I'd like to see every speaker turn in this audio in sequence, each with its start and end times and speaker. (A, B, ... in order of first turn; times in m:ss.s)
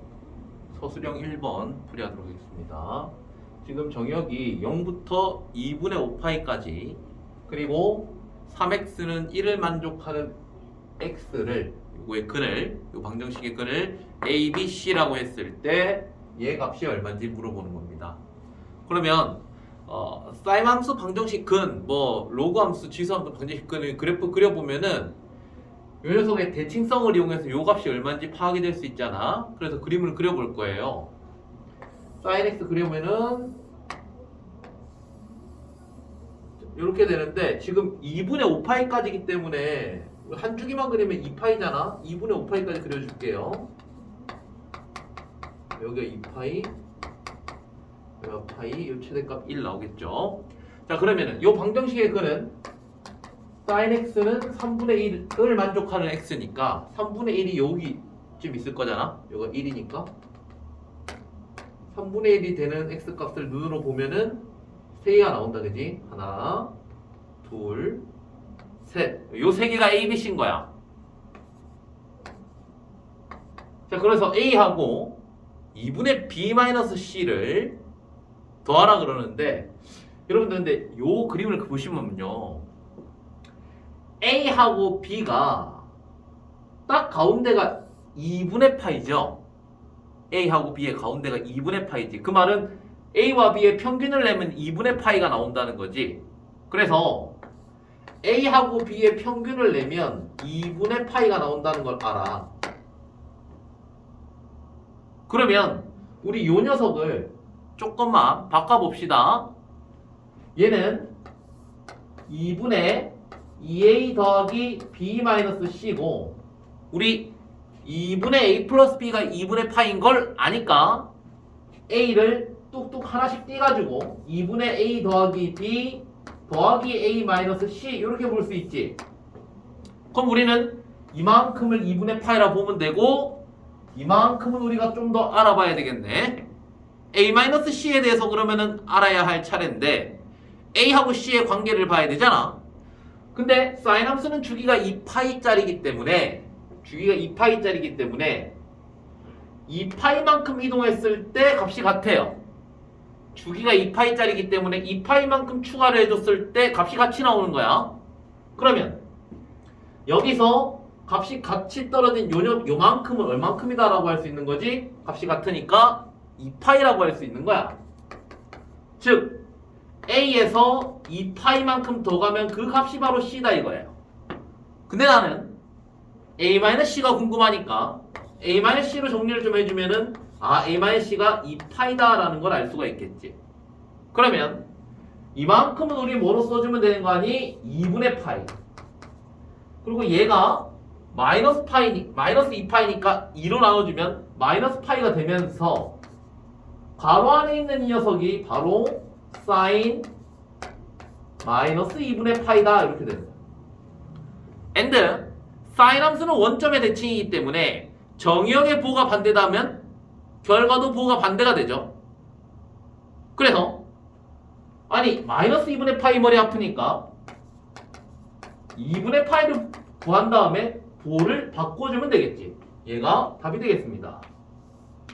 0:00.7-0:10.4 A
0:11.0-0:18.2 A
0:18.9-0:25.2 A
0:26.0-0:31.1 A
0:32.2-0:33.6 A
0:36.7-0:43.7 A
0:45.8-0:46.7 A
0:48.2-0:52.5 A
0:53.6-1:00.1 A
1:01.9-1:04.4 A
1:05.0-1:06.7 A
1:07.4-1:08.0 A
1:08.8-1:10.7 A
1:13.9-1:15.2 A
1:15.7-1:17.8 A
1:18.6-1:19.7 A
1:20.3-1:22.7 A
1:24.2-1:25.9 A
1:26.9-1:29.4 A
1:30.3-1:37.4 A
1:38.2-1:42.5 A
1:45.3-1:49.5 A
1:50.6-1:51.1 A
1:52.3-1:56.4 A
1:56.9-1:57.3 A
1:57.8-2:01.1 A
2:01.9-2:09.0 A
2:10.1-2:13.4 A
2:13.9-2:16.4 A
2:17.1-2:20.2 A
2:20.7-2:22.6 A
2:23.3-2:28.5 A
2:29.7-2:32.4 A
2:33.3-2:37.9 A
2:38.6-2:39.0 A
2:40.1-2:47.8 A
2:49.0-2:49.4 A
2:50.0-2:54.0 A
2:54.9-2:55.5 A
2:56.4-3:03.4 A
3:04.1-3:04.6 A
3:05.3-3:08.5 A
3:09.8-3:16.0 A
3:17.0-3:20.1 A
3:21.4-3:23.4 A
3:24.7-3:29.8 A
3:30.4-3:31.9 A
3:33.4-3:33.8 A
3:34.9-3:37.1 A
3:38.8-3:44.3 A